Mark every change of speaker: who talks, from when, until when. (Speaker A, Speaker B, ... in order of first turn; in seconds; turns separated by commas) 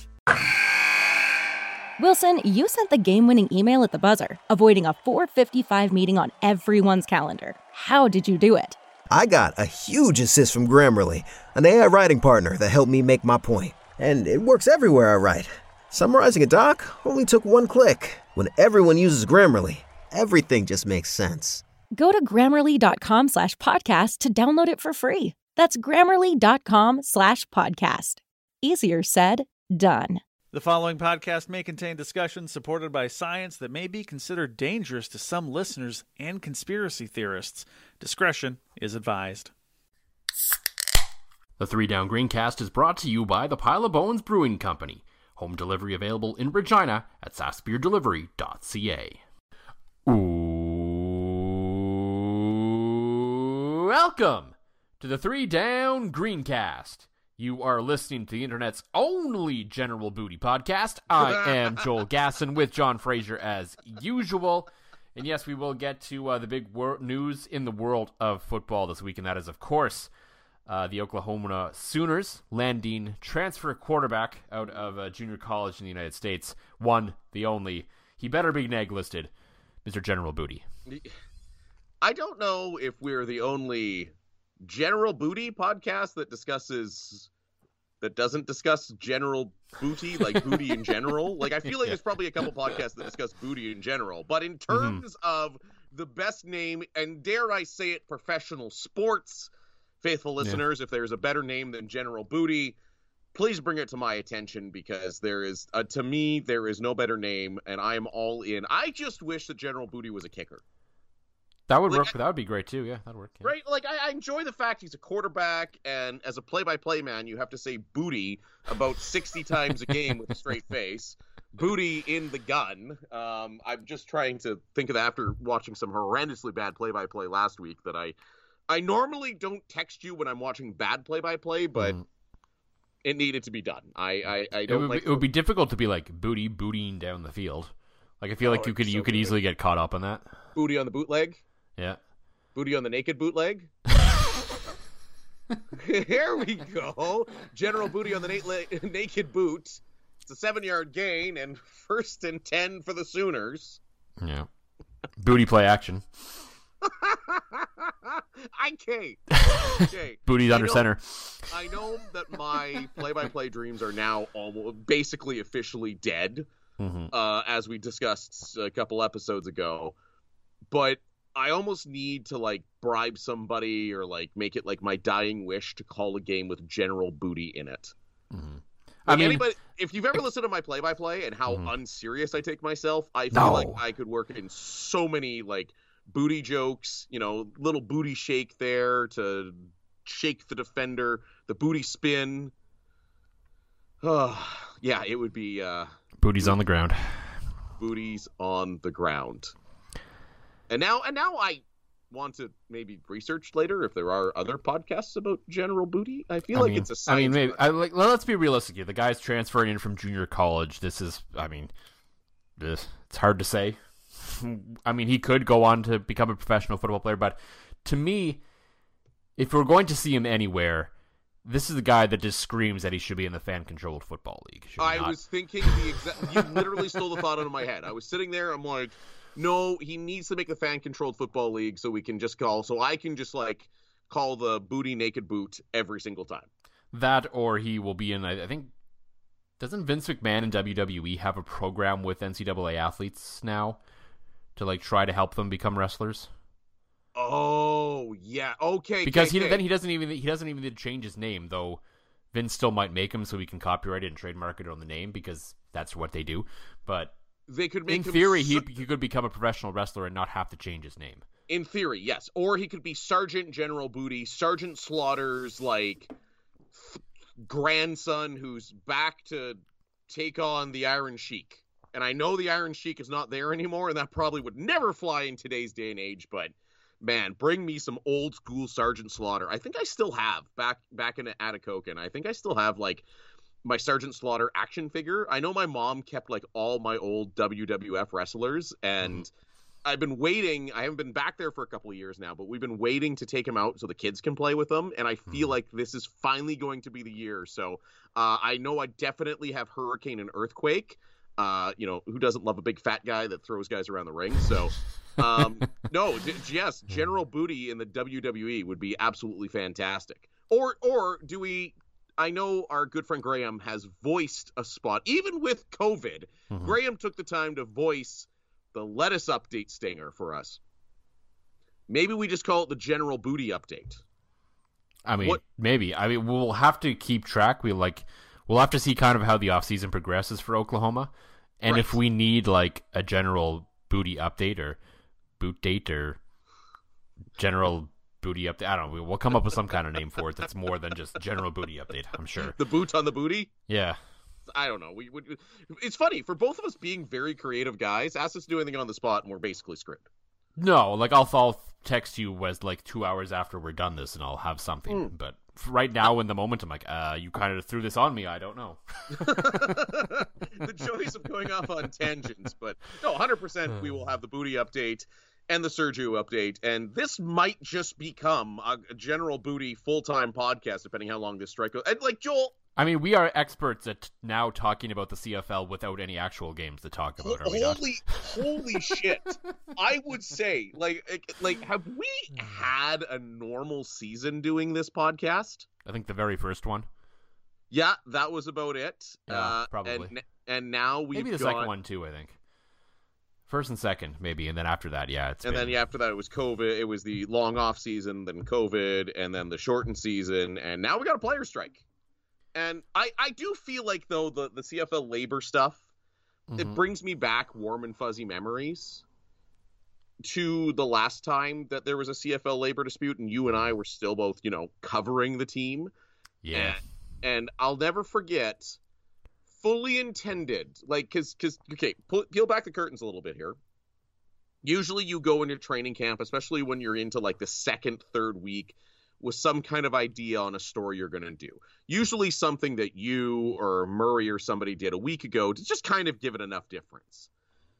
Speaker A: 2.0-8.8, Speaker B: 9.1-21.6, Speaker A: 21.9-30.2, Speaker C: 30.5-39.5, Speaker D: 41.6-49.2, Speaker D: 50.0-70.1, Speaker D: 70.7-79.3, Speaker D: 79.8-80.6, Speaker E: 82.0-84.1, Speaker E: 84.6-87.3, Speaker E: 88.0-99.5, Speaker D: 90.2-90.6, Speaker D: 94.7-95.0, Speaker E: 100.0-102.8, Speaker E: 103.3-110.6, Speaker D: 111.7-113.5, Speaker E: 111.9-112.1, Speaker E: 113.4-128.1, Speaker E: 128.7-131.9, Speaker D: 131.8-132.0, Speaker E: 133.0-135.2, Speaker D: 134.7-140.3, Speaker E: 138.4-139.4, Speaker E: 140.5-141.4, Speaker E: 142.5-143.7, Speaker E: 145.7-153.8, Speaker D: 154.2-154.5, Speaker D: 155.2-156.0, Speaker E: 156.8-160.8, Speaker D: 159.3-161.5, Speaker E: 161.5-166.5, Speaker D: 166.8-167.1, Speaker E: 167.1-169.9, Speaker E: 170.7-177.9, Speaker D: 178.3-179.4, Speaker E: 179.1-192.5, Speaker D: 183.3-183.8, Speaker E: 194.0-196.6, Speaker D: 196.2-197.4, Speaker E: 197.8-199.5, Speaker E: 200.7-207.6, Speaker D: 206.5-211.7, Speaker D: 212.6-218.4, Speaker D: 219.4-220.9, Speaker D: 221.4-226.9, Speaker E: 224.8-236.5, Speaker D: 236.9-238.7, Speaker D: 239.6-243.8, Speaker D: 244.6-246.3, Speaker E: 247.1-249.6, Speaker D: 249.0-251.8, Speaker D: 252.3-257.1, Speaker E: 257.5-258.7, Speaker D: 257.9-261.2, Speaker E: 261.5-266.1, Speaker E: 266.7-283.0, Speaker E: 283.6-289.3, Speaker E: 289.8-320.6, Speaker D: 295.3-295.5, Speaker E: 321.9-324.0, Speaker D: 325.0-334.8, Speaker E: 331.7-332.0, Speaker D: 335.4-336.2, Speaker D: 337.4-342.6, Speaker E: 342.4-343.5, Speaker D: 343.7-344.0, Speaker E: 344.5-350.1, Speaker D: 350.6-359.8, Speaker E: 359.1-372.6, Speaker D: 372.8-377.9, Speaker E: 377.2-385.7, Speaker D: 378.4-379.0, Speaker D: 385.8-386.9, Speaker E: 387.7-391.7, Speaker D: 389.3-390.1, Speaker D: 391.1-392.4, Speaker D: 393.5-395.8, Speaker E: 395.4-401.8, Speaker E: 402.5-405.8, Speaker D: 406.5-406.8, Speaker E: 406.6-409.0, Speaker E: 410.2-415.9, Speaker D: 416.4-416.8, Speaker E: 416.5-418.8, Speaker E: 419.5-423.6, Speaker E: 424.6-437.3